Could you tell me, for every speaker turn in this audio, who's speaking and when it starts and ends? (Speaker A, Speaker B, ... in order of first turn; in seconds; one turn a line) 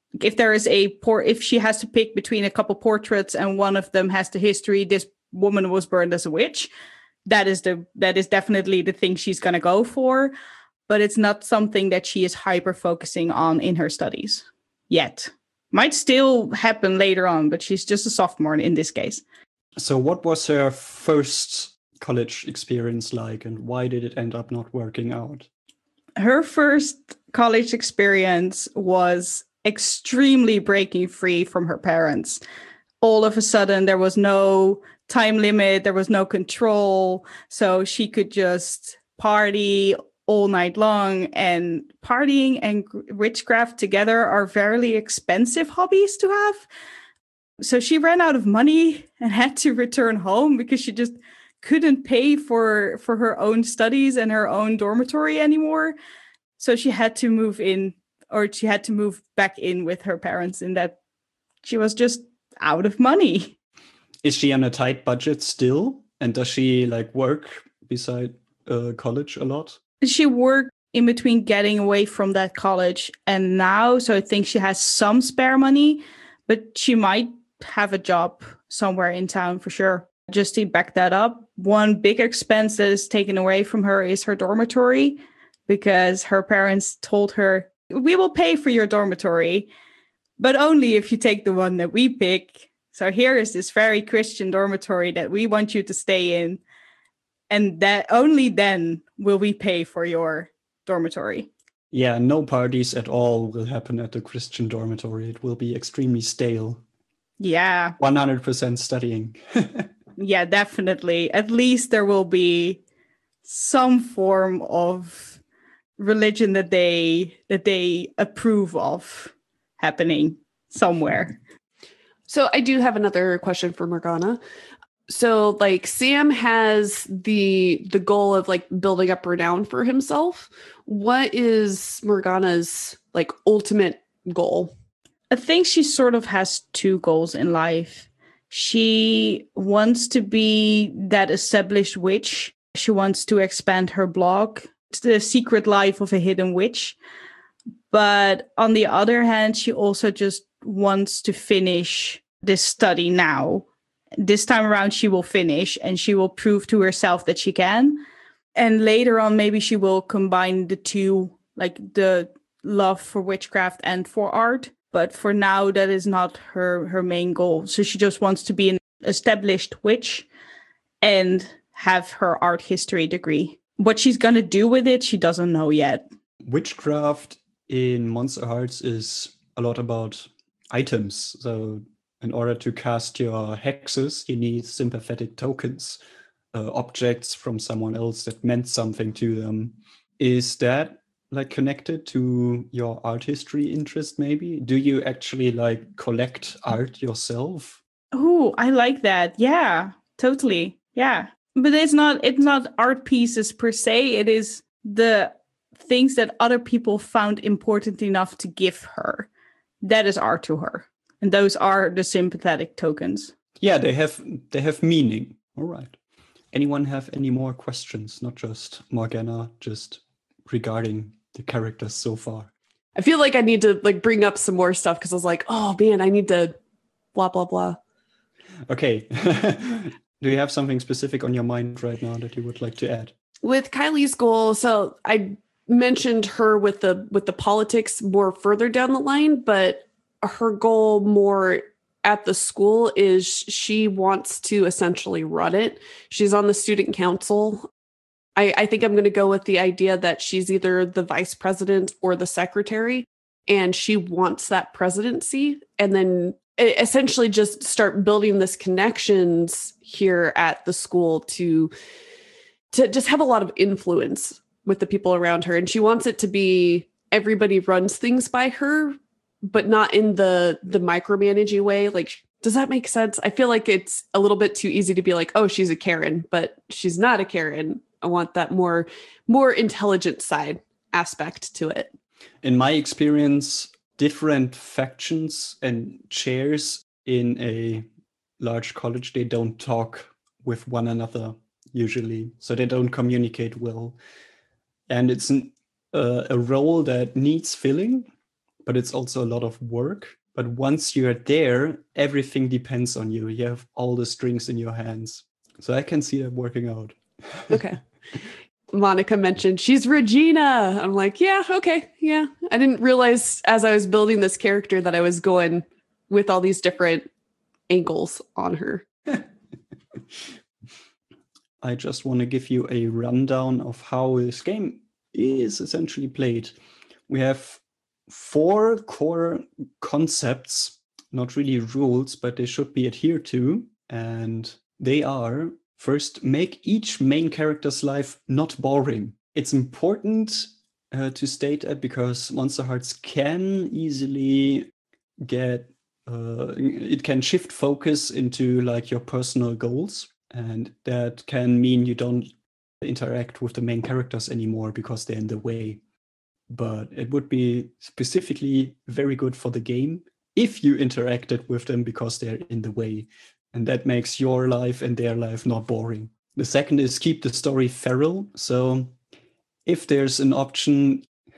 Speaker A: 0.2-6.7
Speaker A: 7.2-10.3
Speaker A: 10.9-19.2
Speaker B: 19.8-25.5
Speaker A: 26.2-32.4
Speaker A: 33.0-46.6
Speaker A: 47.6-56.0
Speaker A: 56.6-61.0
Speaker A: 61.6-63.5
Speaker B: 64.2-69.8
Speaker A: 70.0-89.7
Speaker A: 90.4-96.6
Speaker A: 97.5-101.5
Speaker B: 101.9-106.8
Speaker A: 107.4-108.0
Speaker B: 108.0-109.9
Speaker A: 110.2-112.8
Speaker A: 113.4-115.4
Speaker A: 116.0-121.4
Speaker C: 122.3-124.4
Speaker C: 125.1-134.7
Speaker A: 135.3-147.0
Speaker A: 147.9-153.7
Speaker A: 154.2-158.0
Speaker A: 158.5-170.3
Speaker A: 171.0-176.0
Speaker B: 176.4-186.0
Speaker B: 186.5-197.8
Speaker A: 198.1-209.3
Speaker A: 209.8-213.3
Speaker B: 213.6-216.0
Speaker B: 216.5-222.5
Speaker C: 222.9-226.5
Speaker C: 227.1-227.8
Speaker B: 228.7-233.1
Speaker C: 233.4-247.7
Speaker C: 248.3-261.7
Speaker C: 262.7-281.9
Speaker B: 282.4-287.9
Speaker B: 288.4-294.0
Speaker B: 294.9-298.1
Speaker B: 298.6-307.7
Speaker C: 307.5-307.8
Speaker C: 308.7-317.1
Speaker C: 317.7-318.9
Speaker B: 321.6-326.6
Speaker B: 327.1-344.7
Speaker B: 345.2-352.3
Speaker B: 352.8-355.8
Speaker B: 356.5-368.9
Speaker B: 369.6-371.1